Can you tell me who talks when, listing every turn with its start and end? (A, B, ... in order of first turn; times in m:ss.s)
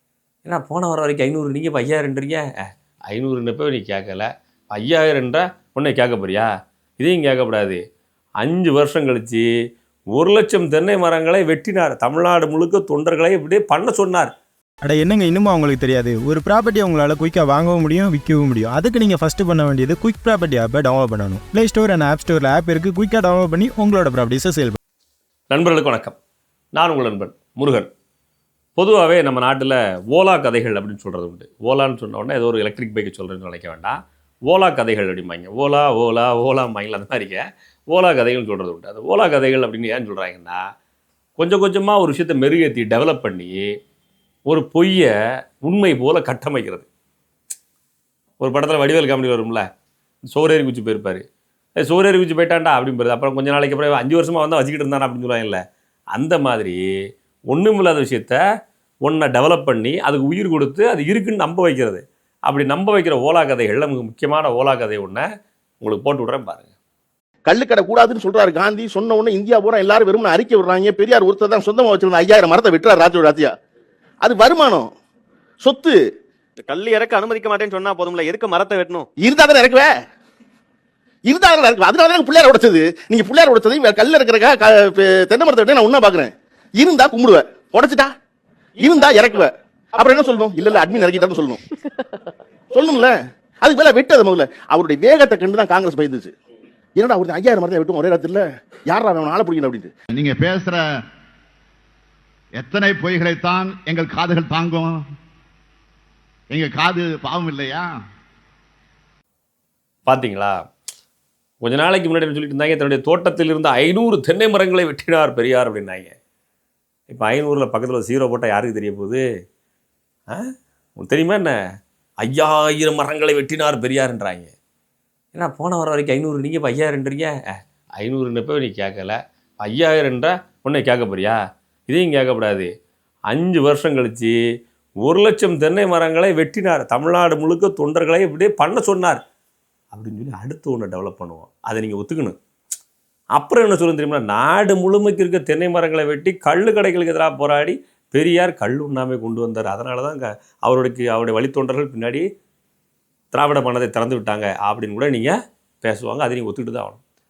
0:00.4-0:02.4 A
0:03.1-0:07.8 A
0:08.4-0:09.5 A
0:10.1-0:14.3 A
0:14.8-0:24.8 B
0:25.5-0:26.2 A
0:26.8-0:27.9 A
0:28.8-0:34.0 A
0:34.5-0:40.6 A
0:41.4-0:43.7 A
0:44.5-0:45.1 A
0:45.6-0:46.9 A
0:48.4-0:49.6 A
0:50.3-0:51.2 A
0:51.8-0:55.6 A
0:56.1-0:56.8 A
0:57.5-0:58.4 A
0:59.0-1:05.2 A
1:05.8-1:06.7 A
1:07.5-1:13.5 C
1:14.2-1:14.9 C
1:15.6-1:16.0 C
1:16.6-1:19.1 D
1:19.2-1:19.9 C
1:21.3-1:28.1 C
1:28.8-1:31.6 C
1:32.7-1:36.3 C
1:37.0-1:39.9 C
1:40.1-1:40.8 E
1:42.6-1:45.0 E
1:46.5-1:48.0 E
1:50.1-1:50.6 A
1:51.6-1:56.1 A
1:57.1-1:59.2 A
2:01.0-2:01.6 A
2:02.2-2:04.5 A
2:05.3-2:12.7 A
2:13.3-2:14.4 A
2:15.0-2:19.2 A
2:19.9-2:22.4 A
2:23.4-2:32.2 A
2:33.3-2:37.0 A